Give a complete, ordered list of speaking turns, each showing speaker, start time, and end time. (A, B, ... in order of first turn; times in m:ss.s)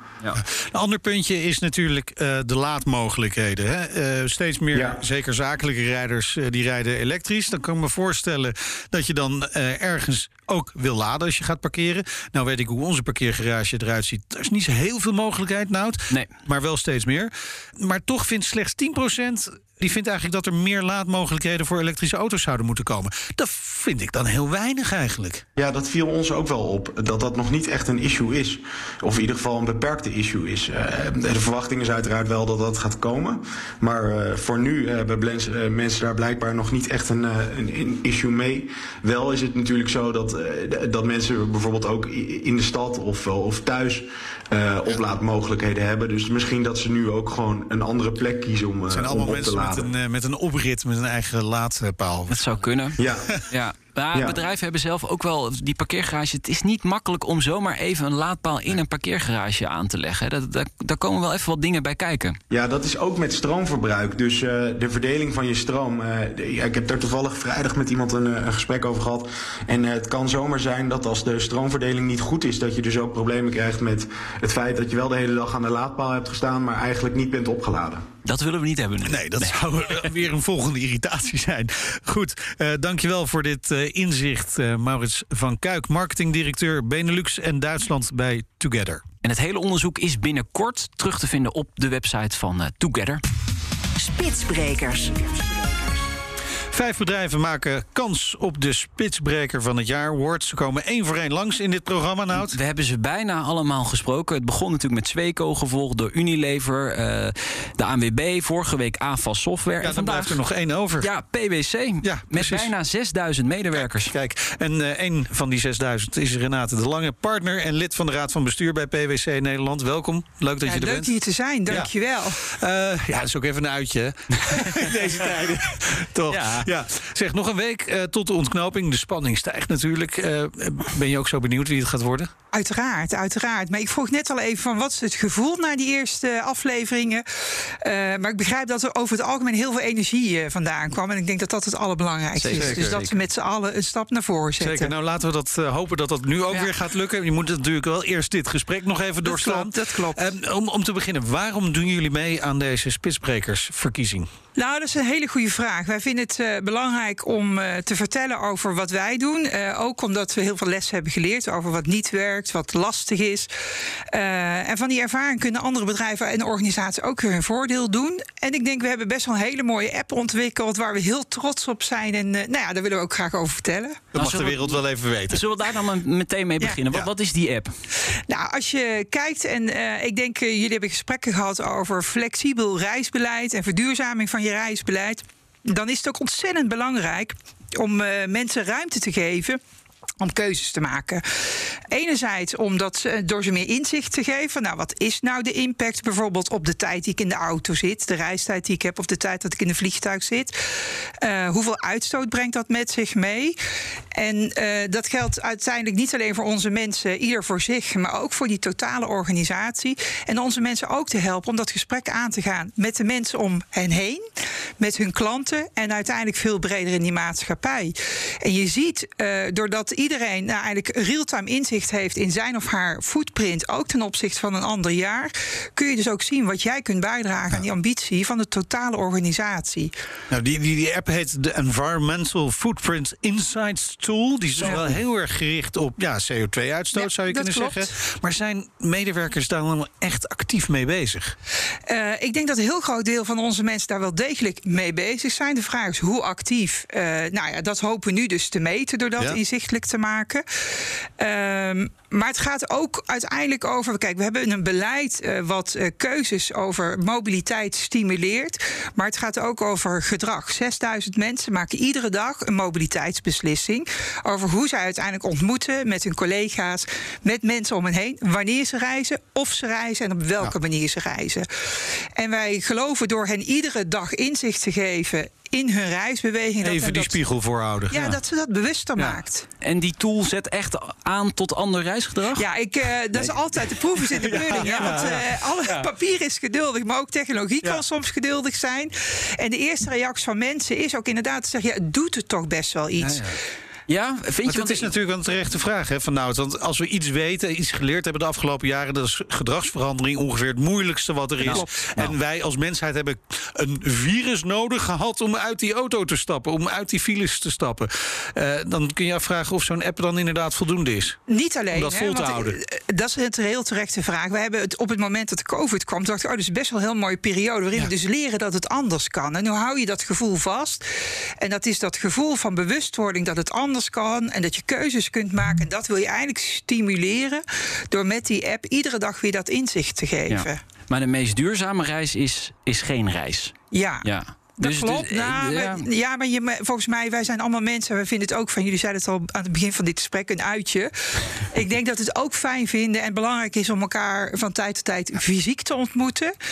0:00.4-0:25.4 A
0:04.7-0:05.0 B
0:25.6-0:49.9 B
0:48.9-0:52.4 A
0:52.3-1:02.4 C
0:53.0-0:53.4 B
0:54.1-0:54.4 B
1:02.5-1:18.1 B
1:18.2-1:19.6 C
1:19.0-1:29.0 A
1:29.2-1:33.2 C
1:34.0-1:36.0 D
1:36.7-1:42.6 A
1:42.4-1:50.4 C
1:49.8-1:51.1 A
1:51.0-1:54.1 C
1:52.0-1:52.7 A
1:53.8-2:01.1 A
2:00.6-2:02.4 E
2:01.7-2:12.3 A
2:06.3-2:06.7 C
2:12.5-2:17.2 E
2:17.8-2:24.9 E
2:22.4-2:22.8 C
2:22.5-2:23.1 A
2:24.6-2:34.3 A
2:29.2-2:30.3 E
2:34.6-2:43.5 E
2:44.1-2:54.0 E
2:54.1-2:55.4 A
2:54.2-2:57.7 C
2:58.3-3:09.6 E
3:10.2-3:20.6 E
3:21.2-3:23.6 E
3:24.1-3:34.2 E
3:34.8-3:49.9 E
3:50.3-4:01.4 A
3:54.6-3:54.9 E
3:57.0-3:57.9 E
4:01.9-4:37.2 E
4:36.6-4:38.2 A
4:37.9-4:39.5 E
4:39.6-4:42.5 C
4:42.4-4:53.4 E
4:44.2-4:45.3 A
4:44.5-4:45.2 C
4:53.0-4:53.4 A
4:53.9-4:54.9 C
4:54.4-5:11.2 A
5:01.4-5:02.2 C
5:11.3-5:20.9 E
5:11.7-5:12.6 A
5:21.4-5:30.6 E
5:30.3-5:35.9 C
5:33.7-5:34.1 E
5:34.6-5:46.3 E